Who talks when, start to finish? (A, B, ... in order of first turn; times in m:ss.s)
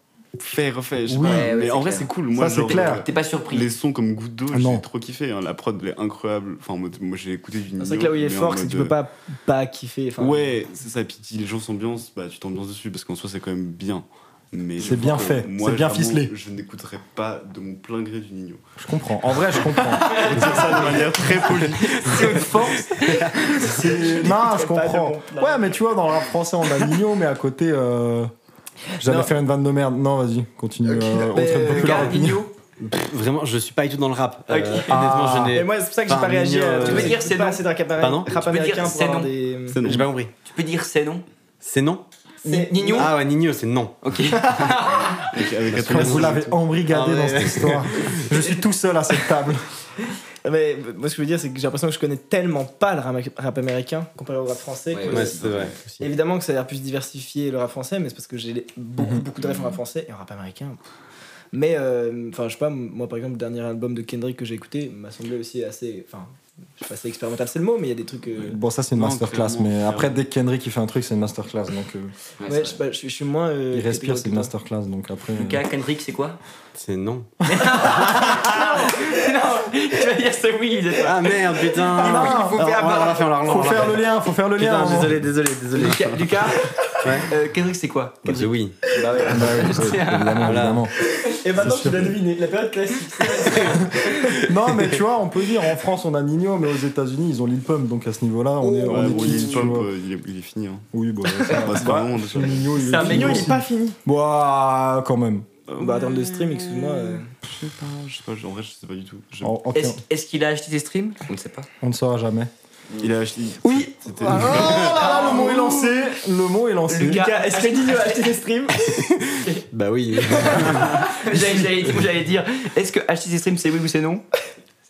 0:00.4-0:09.0 A
0:01.1-0:01.5 B
0:01.2-0:03.7 C
0:02.3-0:03.1 B
0:04.5-0:04.8 B
0:07.8-0:10.4 D
0:10.2-0:18.6 A
0:14.8-0:16.3 B
0:18.8-0:20.9 B
0:20.0-0:20.7 C
0:20.1-0:22.5 A
0:20.3-0:21.1 E
0:21.6-0:23.8 C
0:22.0-0:23.5 E
0:23.6-0:28.3 B
0:23.7-0:25.9 D
0:29.0-0:32.4 B
0:29.0-0:29.3 D
0:30.9-0:32.4 D
0:31.6-0:32.5 C
0:31.8-0:32.1 E
0:32.8-0:37.2 E
0:34.5-0:35.0 C
0:34.9-0:35.6 B
0:35.5-0:39.8 D
0:36.8-0:37.6 C
0:38.0-0:38.4 E
0:38.3-0:39.3 C
0:39.7-0:40.1 A
0:39.8-0:40.3 E
0:40.4-0:41.2 C
0:41.6-0:42.0 E
0:42.4-0:43.1 C
0:42.4-0:43.1 D
0:42.9-0:44.0 E
0:44.0-0:45.5 C
0:45.3-0:46.6 A
0:45.7-0:48.2 E
0:45.7-0:49.7 B
0:50.4-1:00.8 D
0:54.9-0:55.3 C
0:55.1-0:56.1 E
0:55.3-0:55.8 A
0:59.0-0:59.2 B
1:01.5-1:08.6 D
1:08.4-1:12.1 B
1:08.9-1:10.2 A
1:12.4-1:12.8 C
1:12.5-1:14.5 D
1:13.7-1:15.6 B
1:15.3-1:16.4 C
1:16.8-1:18.3 E
1:17.5-1:23.1 C
1:18.2-1:18.5 B
1:21.0-1:26.2 E
1:22.0-1:22.8 B
1:22.0-1:23.8 D
1:23.4-1:25.2 B
1:25.7-1:30.8 C
1:27.0-1:27.3 E
1:28.2-1:28.8 E
1:29.2-1:31.0 B
1:30.4-1:30.8 E
1:31.2-1:34.4 D
1:31.6-1:32.2 B
1:33.3-1:33.6 C
1:34.4-1:39.9 B
1:38.6-1:39.4 D
1:38.9-1:40.9 A
1:40.9-1:45.5 B
1:41.5-1:42.8 A
1:42.8-1:43.5 C
1:42.9-1:44.0 D
1:45.7-1:49.6 A
1:45.8-1:47.3 D
1:49.4-1:50.0 B
1:49.7-1:51.7 C
1:51.8-1:52.5 B
1:53.0-1:55.2 A
1:53.6-1:53.9 D
1:54.2-1:57.4 B
1:54.5-1:55.3 D
1:54.9-1:56.0 C
1:56.9-1:58.8 D
1:56.9-1:58.4 C
1:59.0-2:01.0 E
2:00.4-2:00.9 D
2:00.8-2:04.2 C